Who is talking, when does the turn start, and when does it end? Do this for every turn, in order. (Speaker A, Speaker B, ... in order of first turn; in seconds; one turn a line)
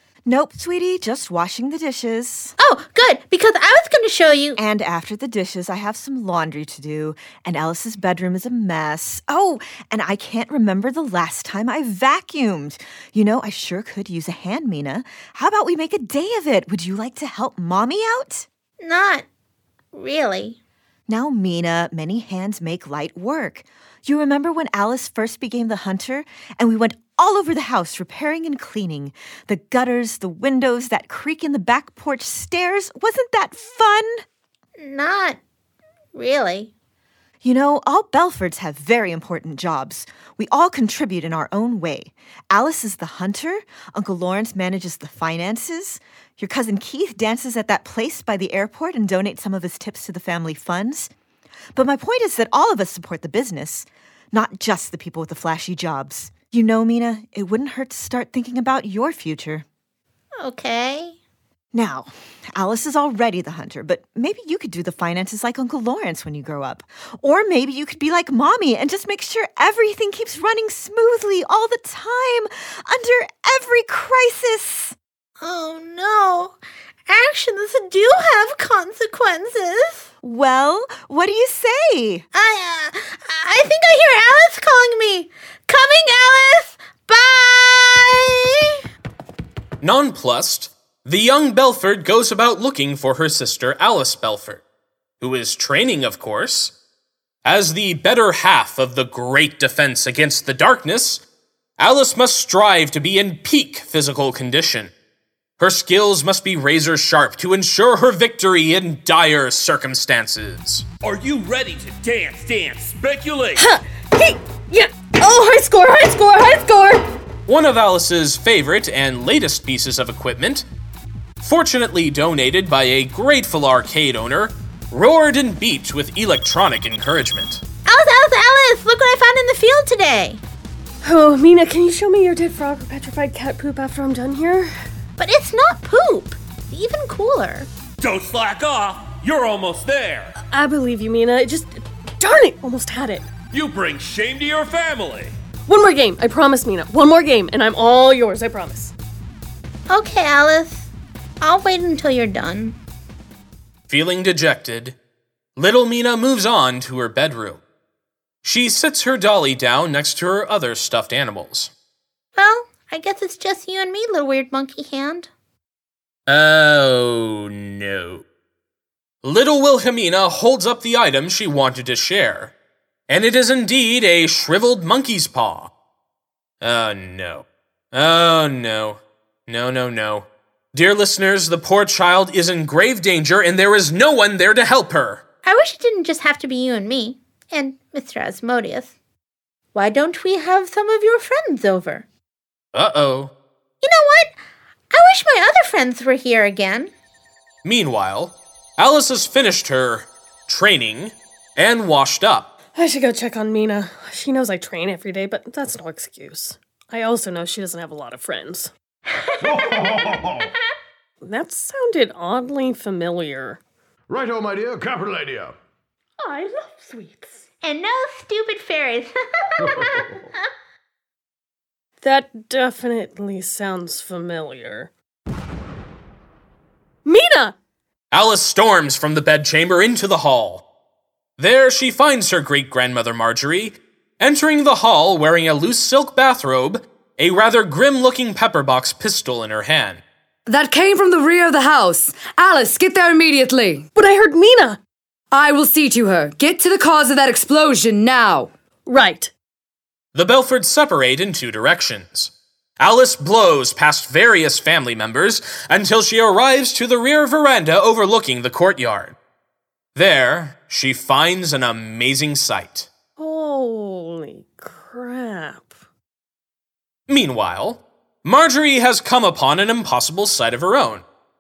Speaker A: 0.3-2.5
Speaker B: 2.6-4.6
Speaker A: 4.6-18.5
Speaker B: 18.8-19.2
Speaker B: 19.9-20.6
Speaker A: 21.1-34.2
Speaker B: 34.8-35.4
Speaker B: 36.1-36.7
Speaker A: 37.4-51.1
Speaker A: 51.7-59.6
Speaker B: 60.4-61.2
Speaker A: 61.7-75.0
Speaker B: 75.4-76.6
Speaker B: 77.1-80.1
Speaker A: 80.2-82.2
Speaker B: 82.3-88.8
Speaker C: 89.8-94.6
Speaker C: 95.2-96.7
Speaker C: 97.5-101.2
Speaker C: 101.8-104.9
Speaker C: 105.6-110.8
Speaker D: 111.0-113.7
Speaker E: 113.6-117.1
Speaker C: 117.5-120.7
Speaker C: 121.4-127.6
Speaker B: 127.8-130.4
Speaker E: 131.0-134.7
Speaker B: 135.2-137.7
Speaker D: 138.0-140.3
Speaker E: 140.4-143.3
Speaker D: 143.5-145.3
Speaker E: 145.7-148.9
Speaker B: 149.9-150.9
Speaker B: 151.4-152.8
Speaker C: 153.9-155.0
Speaker C: 155.6-157.6
Speaker C: 158.4-161.7
Speaker B: 162.4-165.3
Speaker C: 166.3-168.2
Speaker C: 169.2-172.5
Speaker C: 173.1-175.7
Speaker C: 176.6-185.2
Speaker B: 185.4-188.9
Speaker B: 189.7-192.1
Speaker C: 192.7-193.3
Speaker B: 193.8-194.3
Speaker B: 194.9-196.9
Speaker C: 197.6-202.5
Speaker E: 202.7-208.7
Speaker F: 209.4-210.5
Speaker E: 211.2-213.6
Speaker F: 214.1-215.6
Speaker E: 216.2-217.4
Speaker B: 217.6-220.2
Speaker F: 219.6-220.2
Speaker E: 222.0-224.9
Speaker E: 227.1-227.6
Speaker C: 228.1-230.6
Speaker C: 231.4-240.0
Speaker G: 240.5-243.9
Speaker E: 243.9-244.8
Speaker G: 245.3-248.5
Speaker E: 248.9-249.3
Speaker C: 250.1-259.2
Speaker C: 259.9-262.9
Speaker E: 263.2-265.8
Speaker C: 267.1-271.0